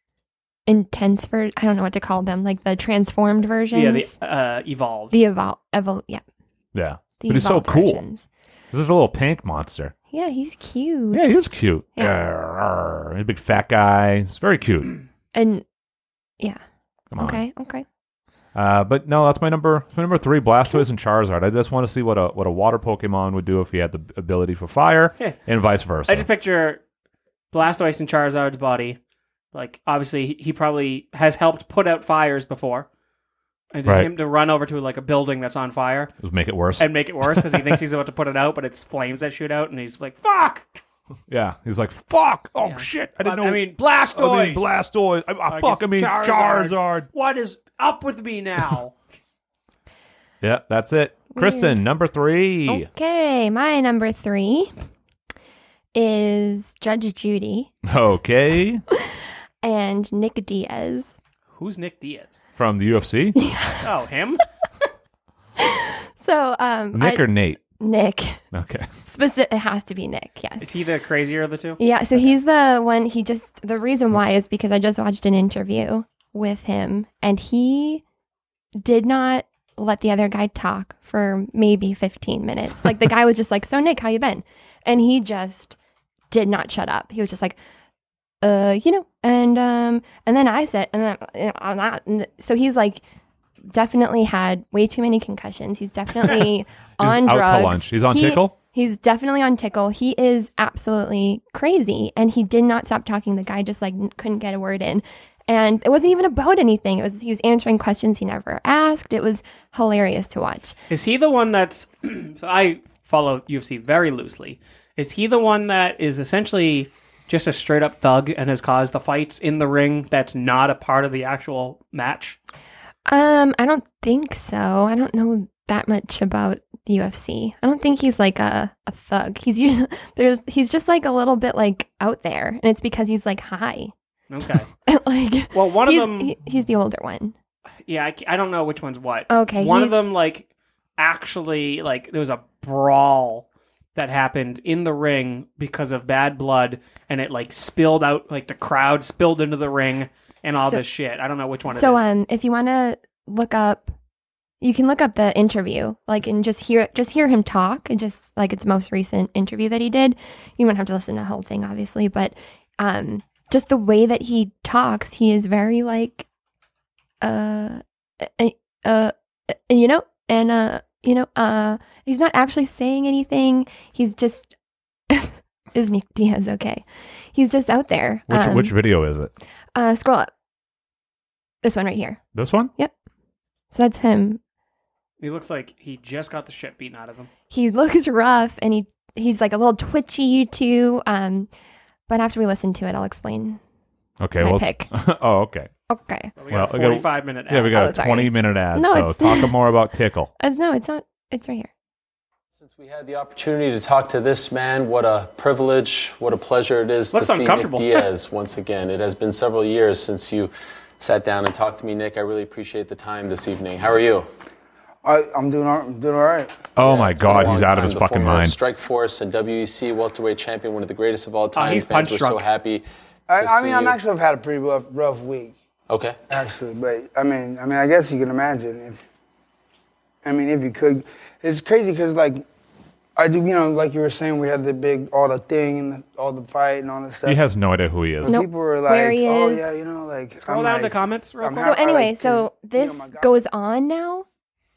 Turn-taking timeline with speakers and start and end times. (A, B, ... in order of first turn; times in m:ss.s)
0:00.7-0:04.1 A
0:03.7-0:05.1 B
0:05.1-0:06.2 A
0:06.7-0:08.0 C
0:07.2-0:08.2 A
0:08.7-0:09.9 C
0:10.1-0:11.4 A
0:11.1-0:15.0 C
0:15.3-0:15.6 A
0:17.1-0:17.4 C
0:17.2-0:17.8 A
0:18.5-0:26.2 C
0:26.0-0:26.8 B
0:27.5-0:29.0 B
0:29.5-0:32.9 B
0:33.7-0:36.1 B
0:33.8-0:34.1 C
0:36.2-0:37.8 C
0:36.8-0:40.8 B
0:41.3-0:47.1 C
0:42.6-0:44.8 B
0:45.5-0:49.0 B
0:50.4-0:52.9 C
0:51.3-0:51.8 A
0:52.7-0:54.7 A
0:55.9-0:57.7 A
0:57.8-0:58.8 C
0:59.0-1:01.1 A
1:01.5-1:02.4 B
1:02.6-1:03.4 C
1:03.4-1:03.8 A
1:03.8-1:04.4 B
1:05.6-1:08.4 A
1:06.9-1:07.6 C
1:08.5-1:08.9 C
1:09.0-1:10.7 A
1:10.6-1:12.3 B
1:11.8-1:18.0 A
1:18.8-1:25.8 A
1:26.3-1:27.6 A
1:28.4-1:33.0 A
1:33.7-1:50.7 A
1:37.0-1:38.5 C
1:50.9-2:02.4 B
2:03.0-2:13.9 A
2:14.3-2:14.7 B
2:14.9-2:17.3 A
2:15.5-2:16.3 B
2:17.9-2:32.0 B
2:19.3-2:20.1 A
2:30.5-2:30.8 A
2:31.7-2:33.9 A
2:34.6-2:46.2 A
2:47.2-2:54.5 A
2:55.1-2:58.8 A
2:58.3-2:59.3 C
2:59.7-3:00.3 A
3:01.6-3:02.2 A
3:02.3-3:02.7 C
3:03.7-3:04.4 A
3:05.2-3:07.3 B
3:07.5-3:11.5 A
3:12.1-3:13.6 A
3:14.2-3:15.7 C
3:14.4-3:14.9 A
3:15.9-3:16.3 A
3:16.4-3:17.7 B
3:16.5-3:20.3 C
3:17.7-3:19.6 A
3:20.4-3:21.7 A
3:22.5-3:34.3 D
3:27.1-3:28.1 B
3:35.0-3:37.6 E
3:36.8-3:38.6 C
3:36.8-3:42.8 D
3:41.5-3:42.5 B
3:43.3-3:45.5 E
3:43.4-3:44.0 D
3:45.9-3:46.2 D
3:46.3-3:49.0 E
3:50.2-3:52.4 E
3:53.2-3:57.4 E
3:57.2-3:58.4 C
3:58.2-4:03.5 E
3:58.2-3:59.6 A
4:00.4-4:01.8 B
4:01.6-4:04.2 A